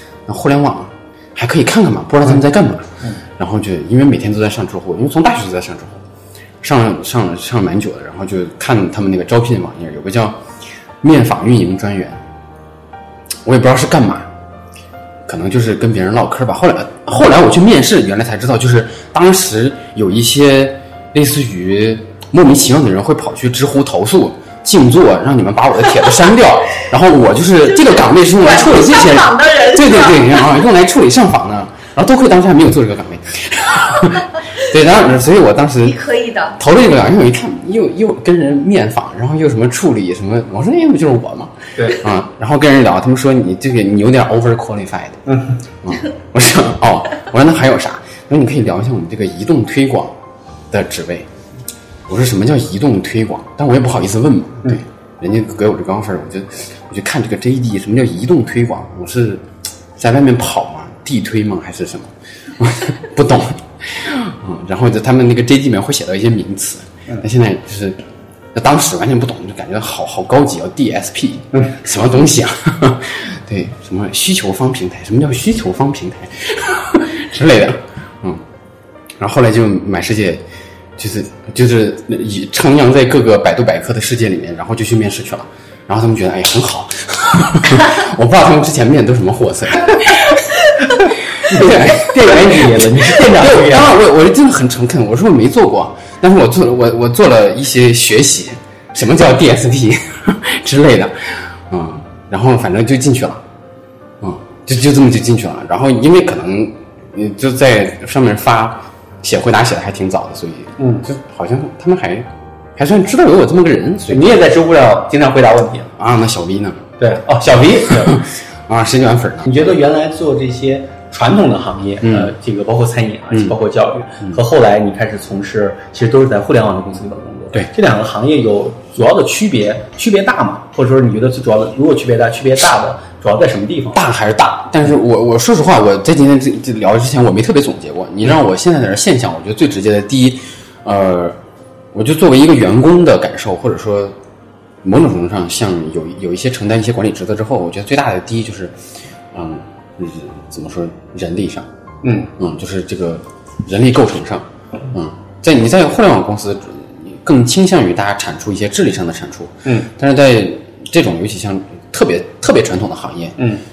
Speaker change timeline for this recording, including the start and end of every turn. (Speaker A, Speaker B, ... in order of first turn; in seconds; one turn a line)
Speaker A: 0.3-6.0
Speaker A: 6.6-10.4
Speaker A: 11.0-12.2
Speaker A: 13.4-14.3
Speaker A: 15.3-36.0
Speaker B: 27.7-30.5
Speaker B: 35.8-36.6
Speaker A: 36.6-45.2
Speaker C: 41.8-42.0
Speaker C: 45.3-45.6
Speaker A: 45.8-50.1
Speaker A: 50.7-51.3
Speaker A: 52.1-59.5
Speaker A: 60.0-68.0
Speaker A: 68.5-78.4
Speaker A: 79.2-80.4
Speaker A: 81.0-103.4
Speaker C: 91.5-94.0
Speaker A: 104.2-114.3
Speaker C: 110.8-111.1
Speaker C: 114.1-115.9
Speaker A: 116.0-116.9
Speaker C: 117.0-118.2
Speaker A: 117.9-119.7
Speaker C: 119.5-134.0
Speaker A: 122.0-122.3
Speaker A: 133.9-141.4
Speaker A: 141.9-144.2
Speaker A: 144.8-148.8
Speaker A: 149.3-151.7
Speaker C: 152.0-152.3
Speaker A: 152.4-163.4
Speaker C: 163.4-163.6